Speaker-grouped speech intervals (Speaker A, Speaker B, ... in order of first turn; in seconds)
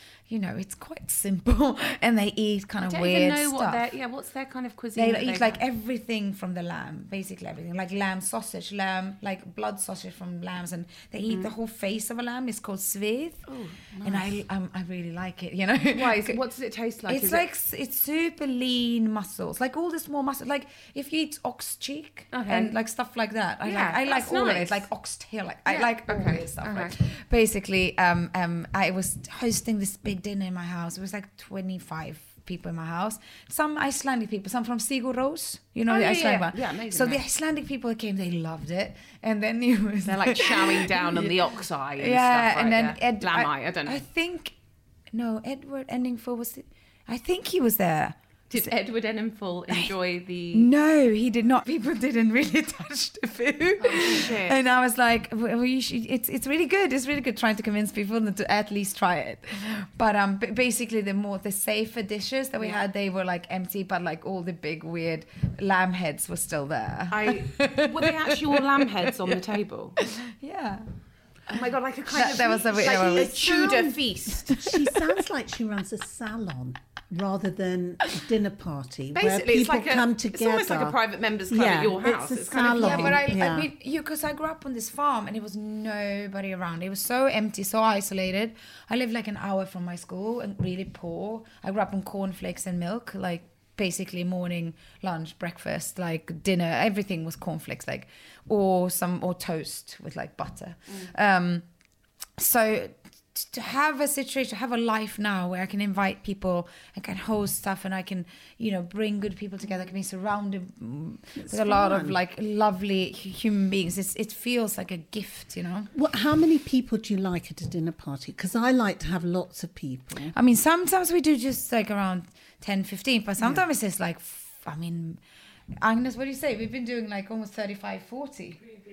Speaker A: 0.3-3.8, 4.9-13.4, 14.0-16.4, 17.1-44.5, 45.1-48.7, 50.5-69.4, 70.0-70.9, 72.1-73.8, 74.5-75.0, 82.7-101.6, 102.4-115.9, 120.3-125.2, 125.8-128.6
Speaker B: 2.8-5.6, 11.3-11.5, 13.4-14.3, 15.9-17.4, 22.3-22.7, 23.6-24.9, 25.6-26.9, 35.9-37.2, 40.0-44.0, 48.5-50.7, 53.8-54.6, 67.1-70.0, 71.5-74.5, 79.1-83.3
Speaker C: 72.9-73.9, 74.5-81.0, 81.5-83.7, 111.4-112.2, 115.9-120.3, 123.4-123.6